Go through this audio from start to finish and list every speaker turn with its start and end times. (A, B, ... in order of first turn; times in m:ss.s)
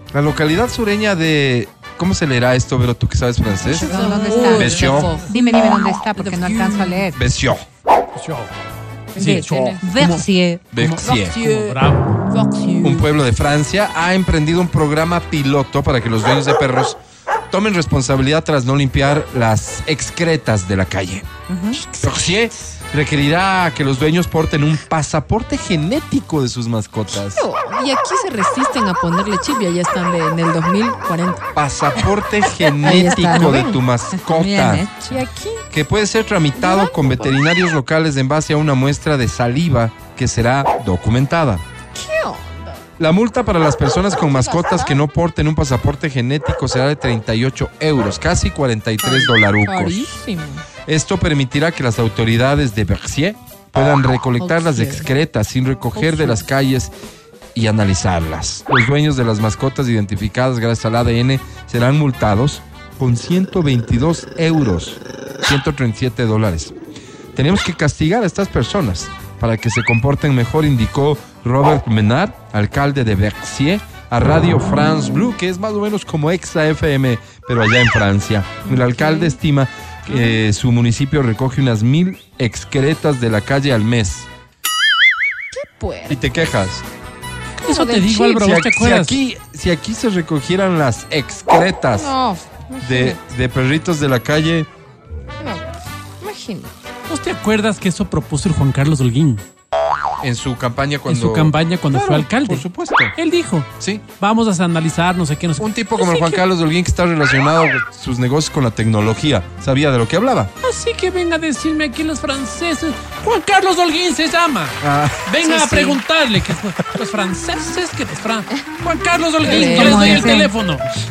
0:00.1-0:05.2 A
0:03.6-0:07.0 B
0:03.6-0:07.2 C
0:04.4-0:05.2 D
0:07.1-0:07.6 A
0:08.2-0:08.5 D
0:09.1-0:09.8 B
0:09.1-0:12.2 D
0:09.2-0:10.7 C
0:10.7-0:11.4 A
0:11.0-0:11.8 B
0:12.3-0:13.0 B
0:12.8-0:17.0 A
0:17.5-0:21.3 A
0:21.5-0:21.8 C
0:21.8-0:22.4 B
0:22.0-0:27.4 A
0:27.2-0:31.5 B
0:31.5-0:34.8 A
0:32.6-0:33.8 B
0:33.1-0:33.4 C
0:34.2-0:35.2 C
0:35.1-0:35.6 B
0:35.7-0:41.6 A
0:36.6-0:37.3 B
0:41.9-0:42.8 B
0:43.0-0:50.0 A
0:44.2-0:45.0 B
0:49.0-0:50.6 B
0:50.8-0:56.9 A
0:54.4-0:55.0 B
0:56.0-0:56.4 B
0:57.5-1:06.8 A
1:07.3-1:24.3 A
1:18.6-1:19.4 B
1:25.5-1:26.2 B
1:26.1-1:26.8 A
1:27.6-1:29.2 D
1:27.7-1:32.1 A
1:32.0-1:33.2 B
1:32.8-1:34.7 A
1:35.4-1:35.7 B
1:36.2-1:36.7 B
1:37.1-1:39.4 D
1:40.2-1:43.1 A
1:41.1-1:46.4 D
1:43.8-1:44.0 A
1:45.6-1:50.5 A
1:50.6-2:00.8 D
1:54.8-1:55.3 A
1:55.4-1:56.0 B
1:59.4-2:00.3 B
1:59.4-2:00.5 C